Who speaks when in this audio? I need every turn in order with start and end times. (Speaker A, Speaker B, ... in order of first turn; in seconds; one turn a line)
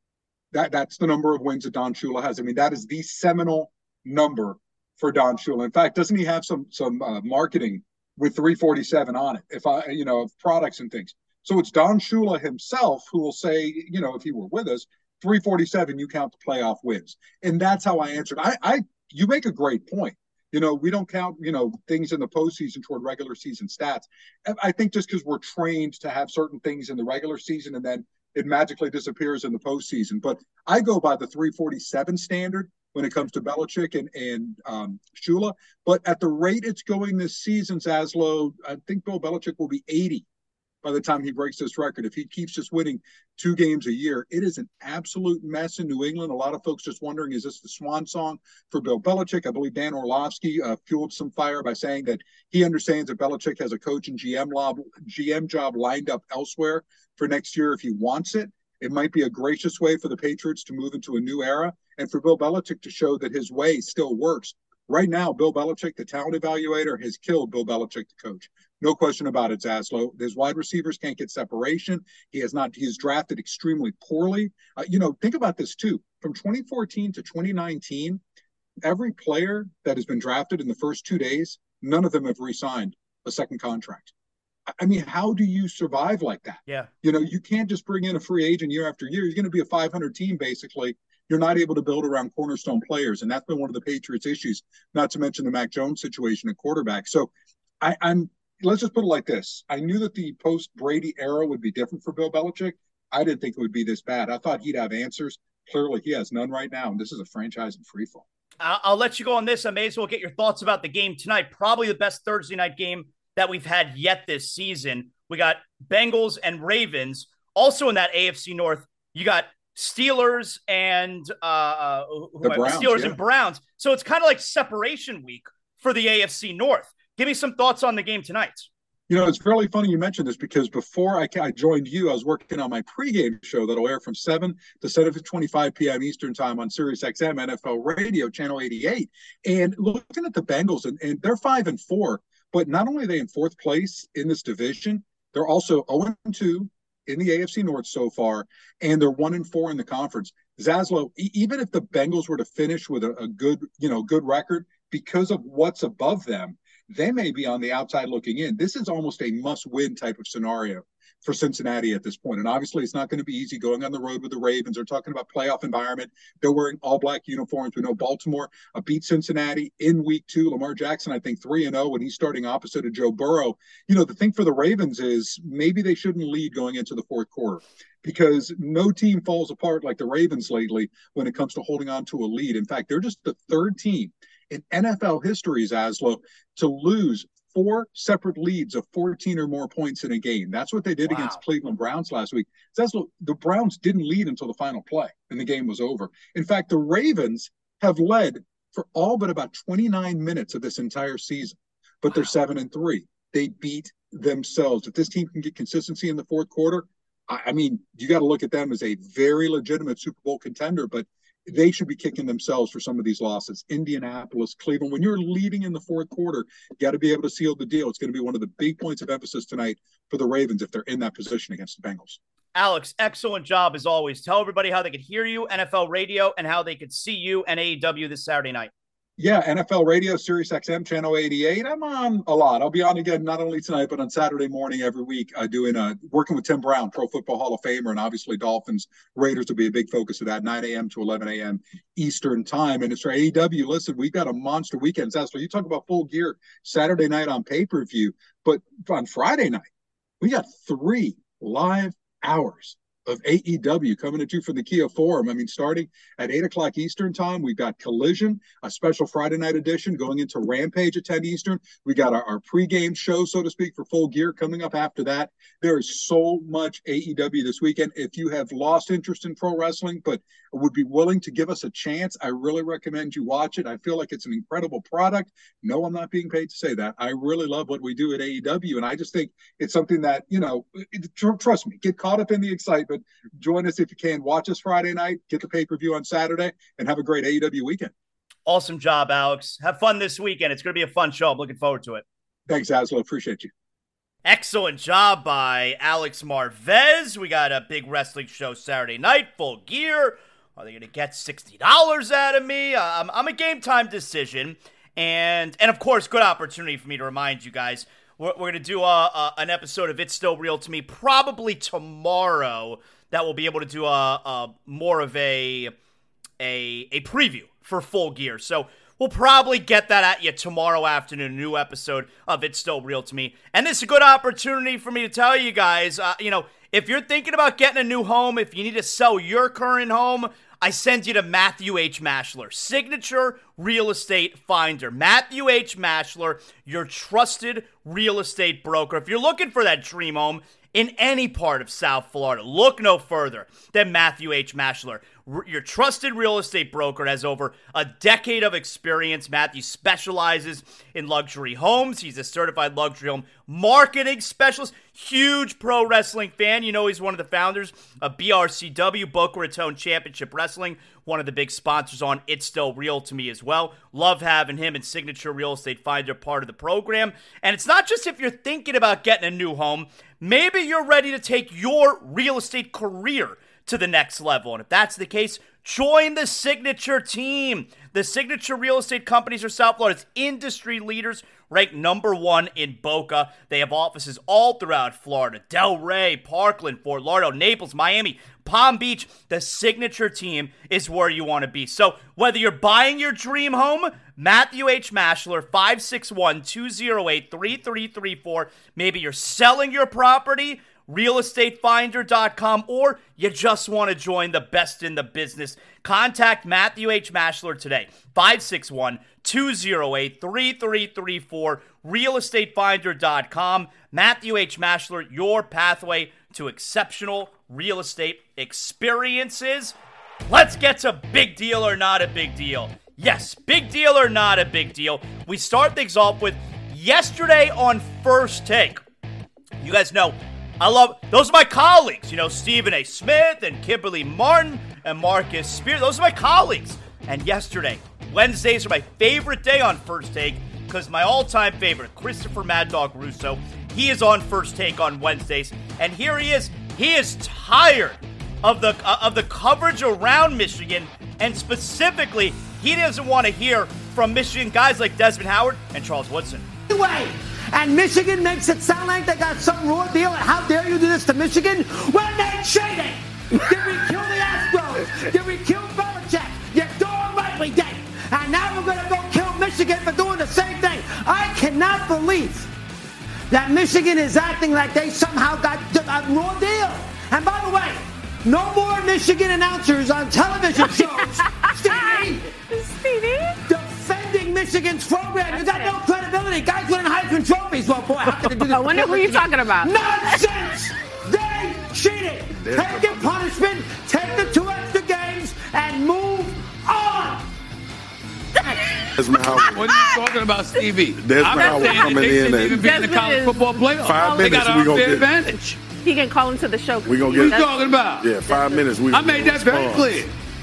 Speaker A: 0.5-40.2
Speaker A: 40.8-78.2
Speaker A: 78.8-84.1
Speaker A: 84.8-97.3
Speaker A: 97.8-108.2
Speaker B: 108.6-128.7
Speaker A: 122.4-123.2
Speaker A: 129.1-222.2
Speaker B: 191.1-191.4
Speaker B: 222.5-228.7
Speaker A: 229.2-249.6
Speaker A: 250.2-287.9
Speaker B: 288.4-292.0
Speaker A: 292.5-293.5
Speaker B: 294.2-315.7
Speaker B: 316.4-419.8
Speaker B: 420.3-428.8
Speaker B: 429.6-456.4
Speaker C: 456.7-472.5
Speaker C: 473.3-482.3
Speaker D: 481.6-483.4
Speaker C: 483.4-497.3
Speaker D: 485.3-485.7
Speaker D: 488.2-489.7
Speaker E: 492.4-493.1
Speaker E: 499.0-499.7
Speaker F: 499.4-505.6
Speaker E: 501.0-502.7
Speaker D: 501.4-503.4
Speaker E: 503.8-505.3
Speaker D: 504.0-504.4
Speaker D: 505.7-507.5
Speaker E: 506.8-510.0
Speaker F: 507.0-508.1
Speaker D: 508.1-508.7
Speaker F: 508.9-510.1